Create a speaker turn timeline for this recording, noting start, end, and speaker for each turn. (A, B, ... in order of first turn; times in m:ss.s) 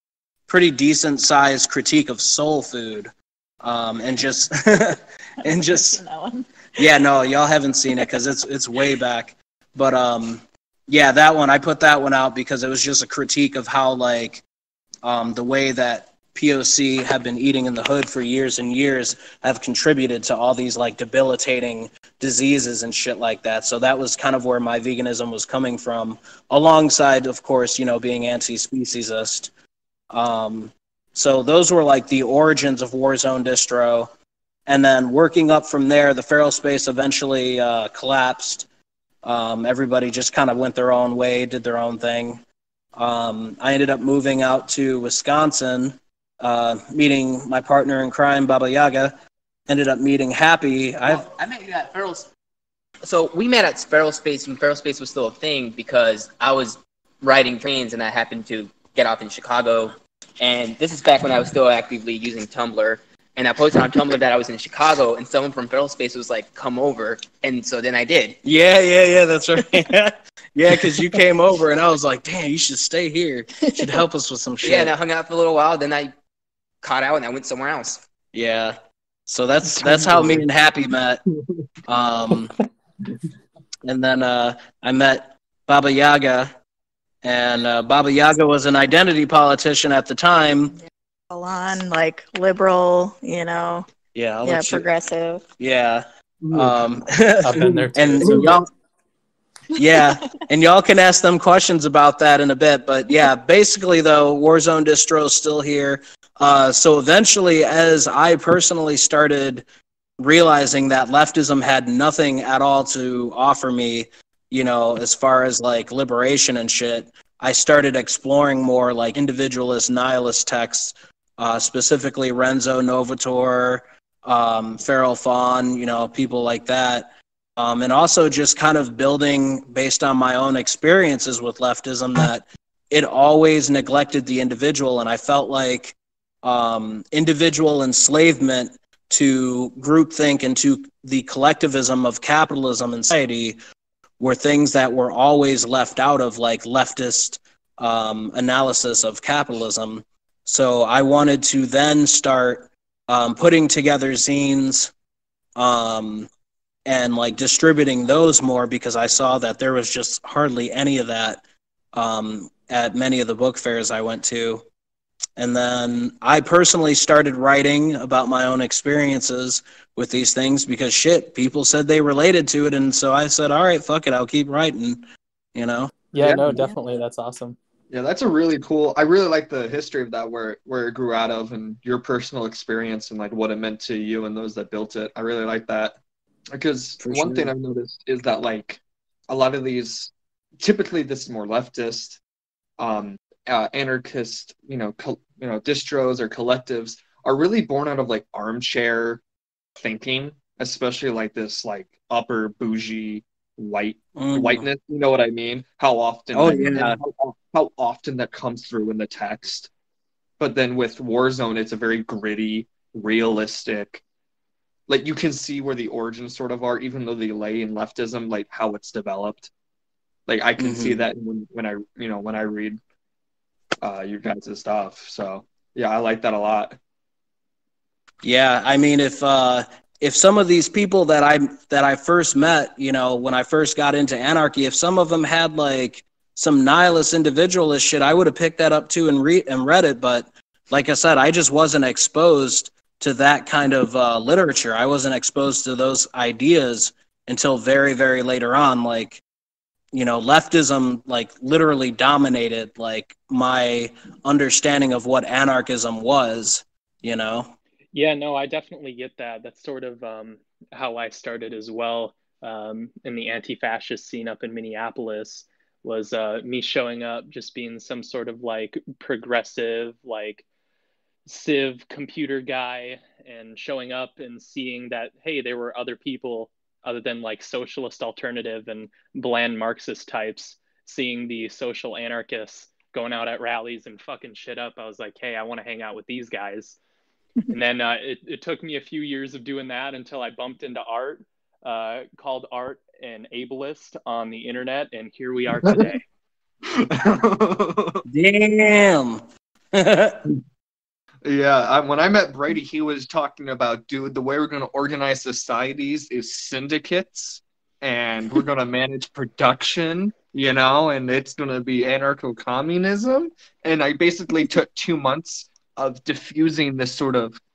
0:00.5-0:06.0 A
0:05.4-0:06.8 B
0:06.8-0:14.4 A
0:15.0-0:29.5 A
0:30.1-0:34.1 A
0:34.7-0:38.7 A
0:39.2-0:42.4 A
0:43.0-0:49.1 A
0:49.7-0:51.3 A
0:51.1-0:52.3 C
0:53.0-1:08.4 C
1:08.4-1:14.9 A
1:13.6-1:13.9 B
1:14.6-1:16.1 C
1:16.8-1:18.0 C
1:18.3-1:18.8 A
1:19.3-1:21.2 A
1:19.8-1:20.4 D
1:21.9-1:22.5 A
1:23.8-1:26.5 A
1:27.2-1:30.7 A
1:30.8-1:33.8 B
1:34.1-1:34.8 A
1:34.4-1:35.4 B
1:35.6-1:38.7 A
1:36.4-1:36.8 D
1:37.4-1:38.6 E
1:37.6-1:38.6 D
1:39.7-1:49.6 A
1:50.2-2:23.6 A
2:24.2-2:34.9 A
2:35.6-2:36.3 A
2:36.8-2:41.4 A
2:41.9-2:44.6 A
2:45.4-2:55.0 A
2:55.5-2:55.9 A
2:56.1-2:57.6 E
2:56.2-2:56.6 D
2:57.9-3:06.0 D
3:06.5-3:12.2 D
3:07.0-3:07.5 A
3:12.8-3:19.2 D
3:19.8-3:29.7 D
3:24.2-3:24.6 A
3:26.3-3:27.0 A
3:30.4-3:34.0 D
3:34.9-3:39.5 D
3:40.3-3:42.8 D
3:40.6-3:41.0 A
3:43.8-3:46.8 D
3:48.2-4:09.2 A
4:09.9-4:17.5 A
4:17.9-4:30.4 E
4:31.2-4:46.8 E
4:47.5-4:56.0 E
4:55.6-4:55.9 D
4:56.6-4:58.0 D
4:58.1-5:00.2 A
5:01.2-5:17.4 D